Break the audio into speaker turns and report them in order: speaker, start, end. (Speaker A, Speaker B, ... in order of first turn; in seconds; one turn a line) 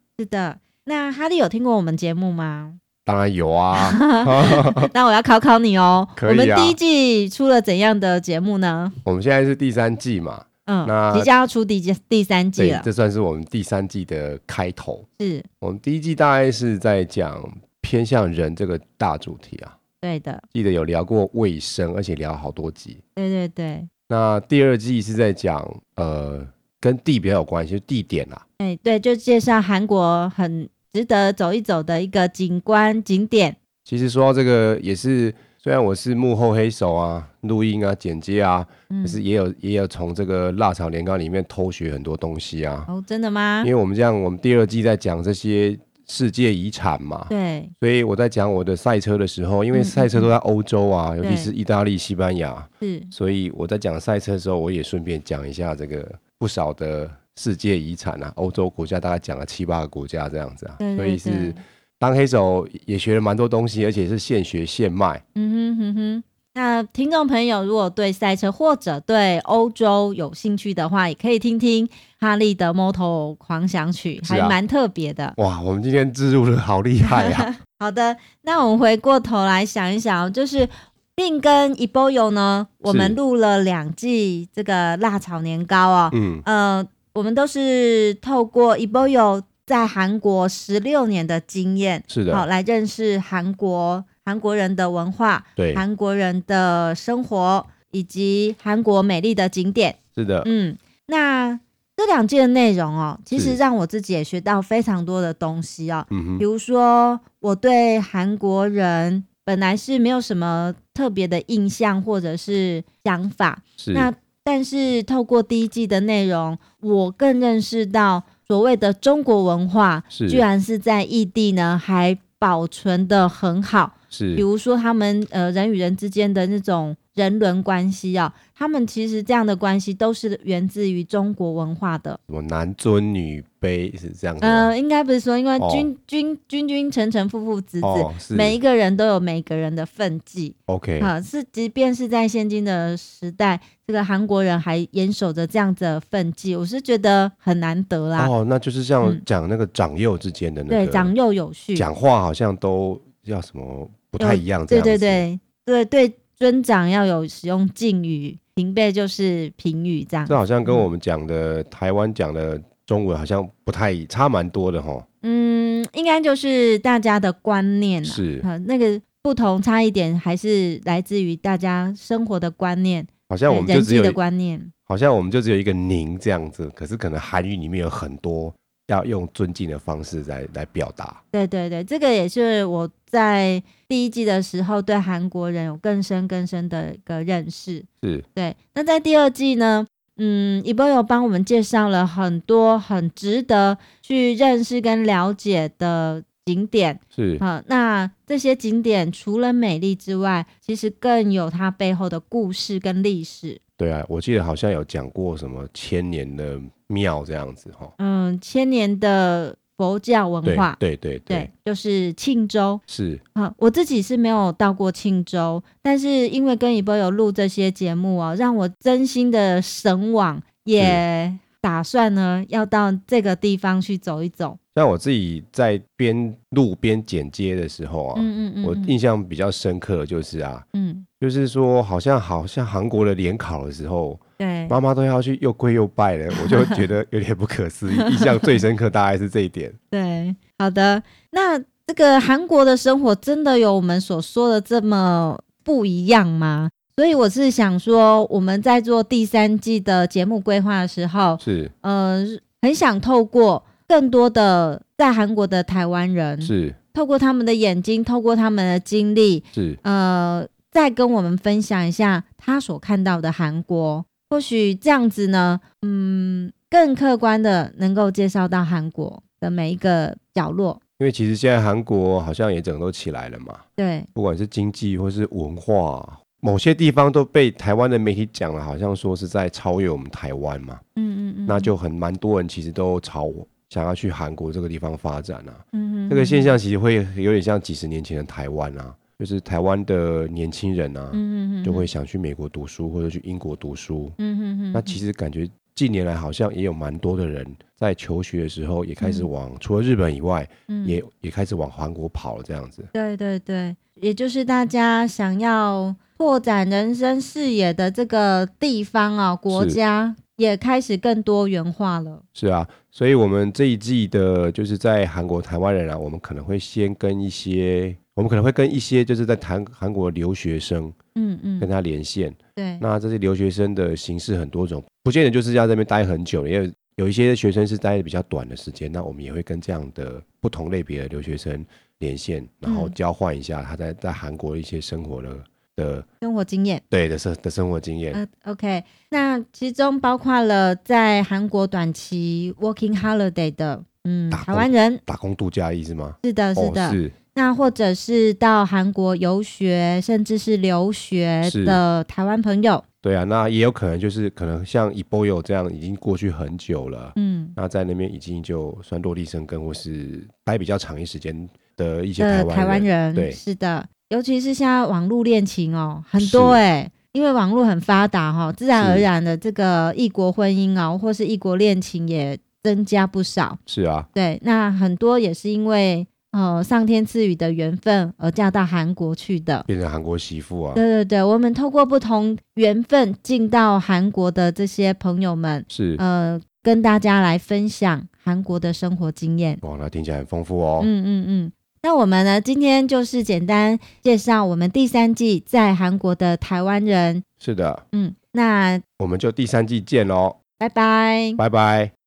Speaker A: 0.2-2.8
Speaker B: 3.0-4.9
Speaker A: 3.7-9.0
Speaker B: 6.2-6.8
Speaker B: 9.0-11.3
Speaker A: 10.7-12.9
Speaker B: 12.6-15.1
Speaker A: 15.2-15.5
Speaker B: 15.6-19.8
Speaker A: 20.0-20.4
Speaker B: 20.5-23.0
Speaker A: 23.1-23.9
Speaker B: 24.1-28.4
Speaker A: 28.6-33.6
Speaker B: 33.8-42.9
Speaker A: 38.9-39.2
Speaker A: 42.9-43.7
Speaker B: 43.6-65.2
Speaker A: 47.3-47.7
Speaker A: 49.7-50.3
Speaker A: 51.2-51.5
Speaker A: 52.8-53.1
Speaker A: 60.8-61.6
Speaker A: 65.3-75.3
Speaker B: 74.2-74.6
Speaker B: 75.4-77.5
Speaker A: 77.0-132.2
Speaker B: 82.8-83.2
Speaker B: 86.1-86.5
Speaker B: 92.1-92.5
Speaker B: 95.6-95.8
Speaker B: 100.2-100.5
Speaker B: 103.3-103.6
Speaker B: 106.1-106.4
Speaker B: 113.8-114.1
Speaker B: 120.1-120.4
Speaker B: 124.1-124.5
Speaker B: 132.3-134.7
Speaker A: 134.4-148.3
Speaker B: 135.6-135.9
Speaker B: 137.8-138.6
Speaker B: 140.7-141.1
Speaker B: 148.2-151.1
Speaker A: 150.7-151.9
Speaker B: 151.7-155.2
Speaker A: 154.2-160.9
Speaker B: 160.3-165.0
Speaker A: 165.2-174.7
Speaker B: 168.0-168.5
Speaker B: 173.3-174.2
Speaker B: 174.9-181.2
Speaker A: 181.3-203.6
Speaker B: 197.1-197.4
Speaker B: 203.8-207.9
Speaker A: 208.0-210.8
Speaker B: 210.4-211.5
Speaker A: 211.3-212.8
Speaker B: 212.9-213.2
Speaker A: 213.3-224.6
Speaker B: 220.8-221.0
Speaker B: 224.7-230.7
Speaker A: 228.1-229.0
Speaker A: 230.7-231.0
Speaker B: 231.2-239.8
Speaker A: 234.4-234.8
Speaker A: 236.4-236.8
Speaker A: 237.9-238.6
Speaker A: 239.9-270.8
Speaker B: 251.4-251.7
Speaker B: 256.4-256.8
Speaker B: 259.5-259.8
Speaker B: 271.0-280.8
Speaker A: 273.8-274.1
Speaker A: 280.9-281.7
Speaker B: 281.5-294.2
Speaker A: 285.7-286.6
Speaker A: 291.1-291.9
Speaker A: 294.2-295.0
Speaker B: 294.7-302.9
Speaker A: 299.0-299.3
Speaker A: 300.7-301.0
Speaker A: 302.9-312.2
Speaker B: 309.5-309.8
Speaker B: 312.3-320.9
Speaker A: 321.1-321.7
Speaker B: 321.6-336.0
Speaker A: 322.6-322.8
Speaker A: 332.6-332.9
Speaker A: 336.2-336.8
Speaker B: 336.9-338.2
Speaker A: 338.1-345.0
Speaker B: 344.3-347.1
Speaker A: 346.2-352.8
Speaker B: 351.4-351.8
Speaker B: 353.0-363.4
Speaker A: 357.1-357.6
Speaker A: 362.2-373.6
Speaker B: 366.2-366.6
Speaker B: 368.7-369.1
Speaker B: 373.7-374.1
Speaker A: 374.1-379.7
Speaker B: 379.7-380.8
Speaker A: 380.7-389.6
Speaker B: 385.7-386.0
Speaker B: 389.6-390.9
Speaker A: 390.8-397.2
Speaker B: 397.4-397.8
Speaker A: 397.9-398.8
Speaker B: 399.0-400.4
Speaker A: 400.6-401.4
Speaker B: 401.4-401.9